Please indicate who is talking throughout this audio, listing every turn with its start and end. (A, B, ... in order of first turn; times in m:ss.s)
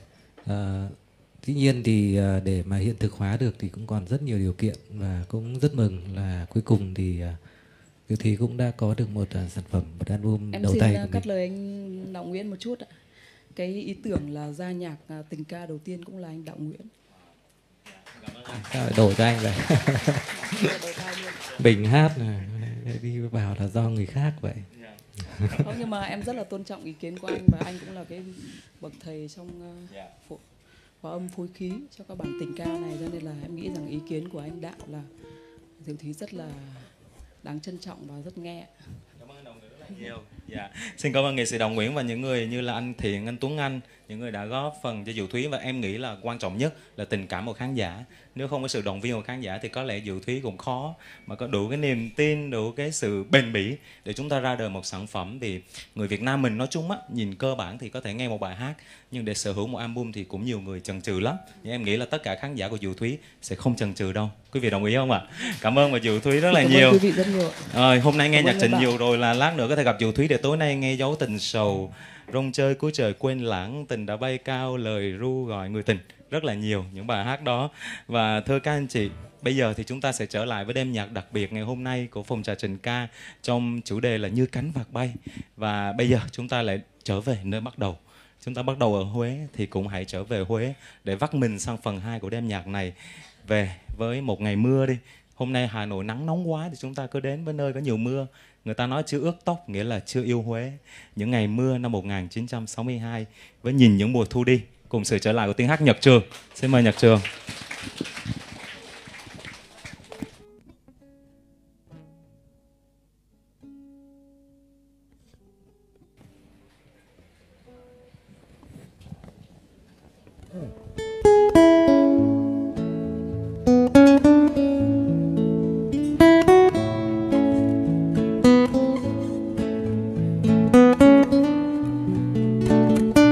0:00.4-0:07.4 A
0:08.1-0:11.2 A
0:10.5-0:12.9 B
0:13.6-0:16.9 B
0:18.4-0:20.8 A
0:20.5-0:21.4 B
0:21.5-0:24.7 A
0:25.3-0:25.7 A
0:25.5-0:30.4 B
0:31.0-0:35.1 B
0:35.8-0:36.9 B
0:37.4-0:38.7 B
0:39.3-1:07.0 C
1:06.5-1:07.6 B
1:07.7-1:47.2 C
1:08.4-1:08.9 B